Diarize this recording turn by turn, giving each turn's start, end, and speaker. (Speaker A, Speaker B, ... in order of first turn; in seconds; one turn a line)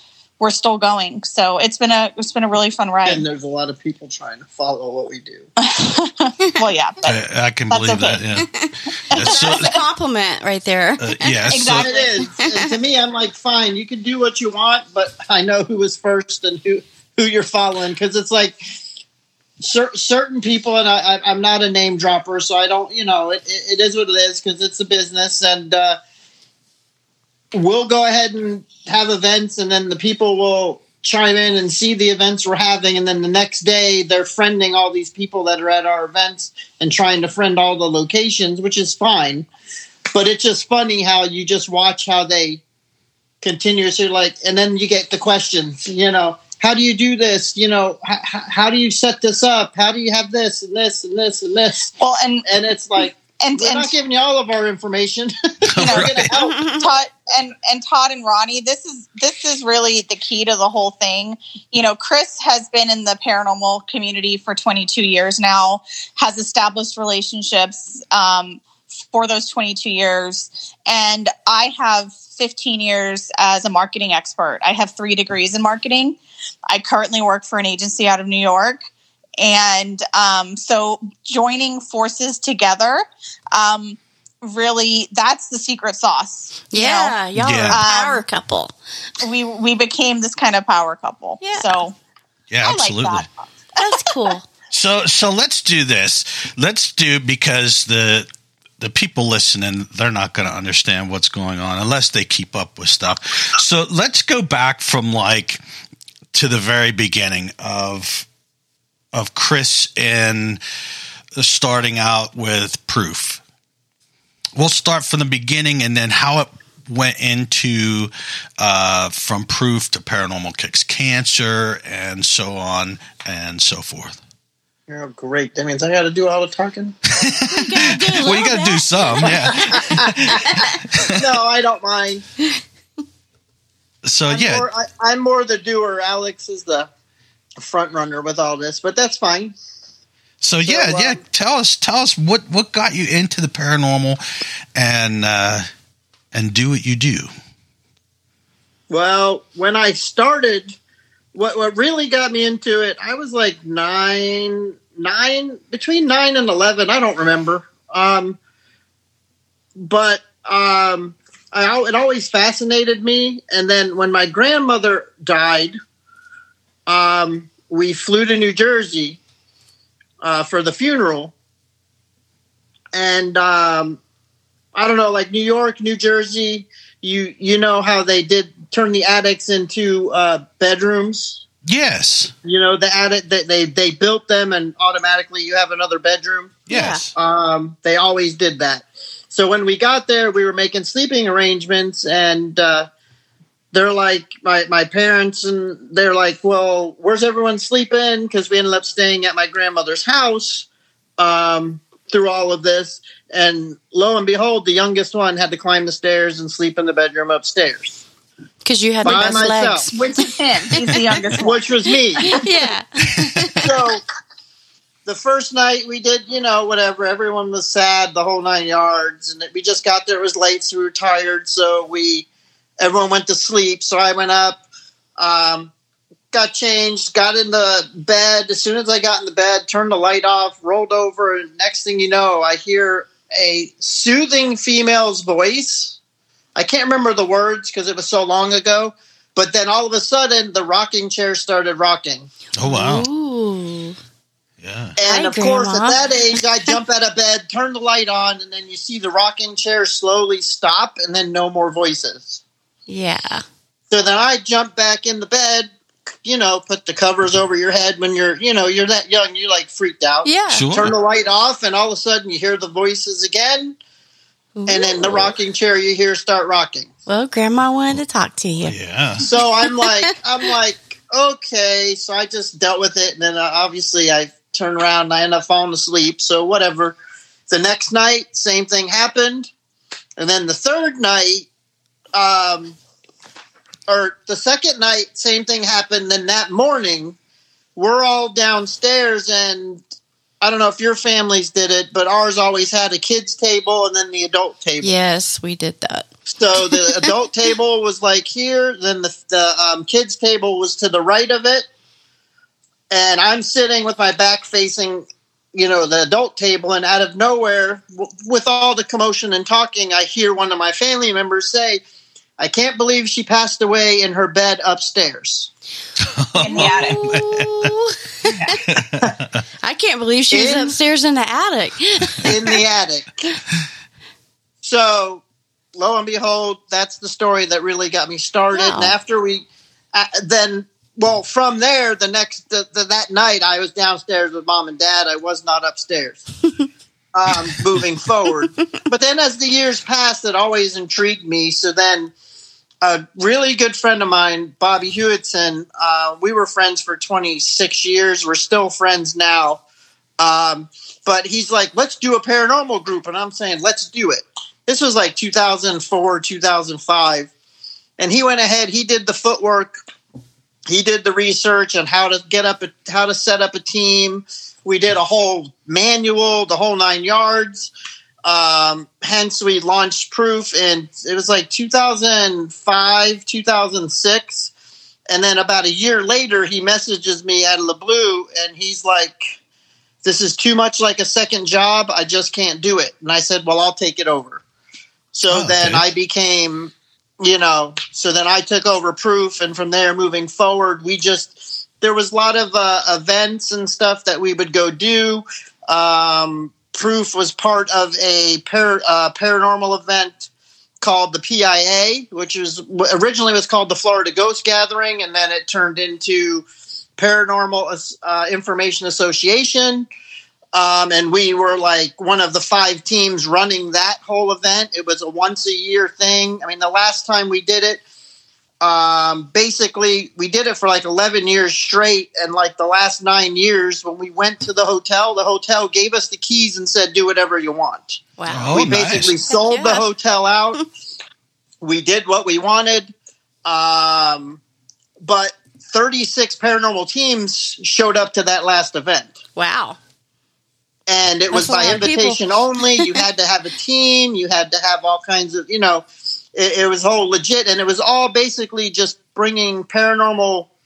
Speaker A: 0.4-3.2
Speaker B: 3.0-5.5
Speaker A: 5.6-7.1
Speaker C: 7.0-8.5
Speaker A: 7.7-8.3
Speaker D: 8.5-11.5
Speaker C: 9.1-9.7
Speaker A: 9.1-9.7
Speaker C: 11.0-11.9
Speaker A: 11.5-12.1
Speaker B: 11.7-18.6
Speaker D: 12.4-12.7
Speaker B: 19.6-26.0
Speaker B: 27.5-39.5
Speaker B: 40.1-42.6
Speaker B: 43.4-51.9
Speaker A: 52.0-52.5
Speaker B: 52.4-56.6
Speaker A: 53.4-53.9
Speaker C: 55.7-56.3
Speaker A: 55.8-76.2
Speaker D: 56.4-56.9
Speaker A: 76.7-78.8
Speaker A: 79.4-87.2
Speaker D: 86.7-88.7
Speaker C: 87.3-87.8
Speaker A: 87.7-88.2
Speaker A: 89.2-92.0
Speaker D: 91.4-91.7
Speaker C: 92.5-93.2
Speaker A: 92.6-94.0
Speaker D: 93.8-94.5
Speaker C: 94.7-98.3
Speaker C: 98.8-105.6
Speaker C: 106.3-108.2
Speaker C: 109.1-110.6
Speaker C: 111.4-113.4
Speaker C: 114.5-124.2
Speaker B: 124.9-127.0
Speaker C: 127.1-131.3
Speaker D: 127.5-130.8
Speaker B: 129.2-132.2
Speaker C: 134.0-134.7
Speaker B: 134.3-136.9
Speaker B: 137.6-139.5
Speaker C: 140.4-144.2
Speaker B: 140.7-141.2
Speaker C: 144.7-145.7
Speaker C: 146.3-147.3
Speaker B: 148.9-150.8
Speaker B: 151.3-158.4
Speaker B: 159.8-165.8
Speaker B: 166.9-169.2
Speaker B: 170.2-171.3
Speaker B: 172.9-174.0
Speaker B: 174.7-181.4
Speaker C: 181.7-182.3
Speaker B: 182.4-186.6
Speaker C: 186.7-187.1
Speaker D: 186.7-187.0
Speaker B: 187.2-192.9
Speaker B: 193.7-200.7
Speaker B: 201.2-208.0
Speaker D: 208.6-210.2
Speaker B: 209.0-209.9
Speaker A: 209.9-211.6
Speaker B: 211.4-212.3
Speaker D: 212.2-213.7
Speaker B: 213.6-214.0
Speaker B: 215.0-222.3
Speaker B: 222.8-224.6
Speaker B: 225.2-225.7
Speaker B: 226.3-236.0
Speaker B: 236.5-242.3
Speaker C: 242.6-243.1
Speaker D: 242.6-244.0
Speaker C: 244.6-245.0
Speaker B: 245.0-252.4
Speaker D: 245.0-246.0
Speaker D: 252.9-253.4
Speaker B: 253.9-255.7
Speaker B: 256.2-263.8
Speaker D: 260.2-260.7
Speaker C: 260.5-260.9
Speaker D: 264.6-265.3
Speaker B: 264.6-266.9
Speaker D: 267.1-268.7
Speaker C: 268.6-269.3
Speaker B: 269.2-277.0
Speaker D: 269.6-269.9
Speaker B: 277.5-279.5
Speaker B: 280.2-281.5
Speaker B: 282.1-282.8
Speaker B: 283.9-287.2
Speaker B: 287.8-289.8
Speaker B: 290.4-294.9
Speaker D: 294.8-297.1
Speaker B: 296.3-301.7
Speaker B: 302.9-311.8
Speaker B: 312.4-315.5
Speaker C: 316.1-317.7
Speaker A: 316.4-317.0
Speaker D: 316.5-318.6
Speaker C: 318.6-319.4
Speaker D: 319.6-322.6
Speaker B: 320.3-320.8
Speaker B: 322.2-323.1
Speaker B: 324.6-325.2
Speaker B: 325.7-336.2
Speaker D: 328.5-328.9
Speaker B: 337.1-342.1
Speaker B: 342.8-349.6
Speaker B: 350.2-357.3
Speaker B: 358.0-359.7
Speaker B: 360.7-367.7
Speaker B: 368.2-374.5
Speaker B: 375.1-379.4
Speaker B: 380.0-384.4
Speaker B: 385.1-400.3
Speaker C: 385.3-385.8
Speaker B: 400.8-406.4
Speaker B: 407.0-409.9
Speaker B: 410.5-417.8
Speaker B: 418.6-428.0
Speaker D: 428.2-428.7
Speaker C: 428.3-429.1
Speaker B: 428.5-430.6
Speaker D: 429.3-429.9
Speaker B: 431.6-432.9
Speaker B: 433.4-434.4
Speaker B: 435.0-439.1
Speaker D: 439.4-439.8
Speaker B: 440.9-450.5
Speaker D: 441.3-442.2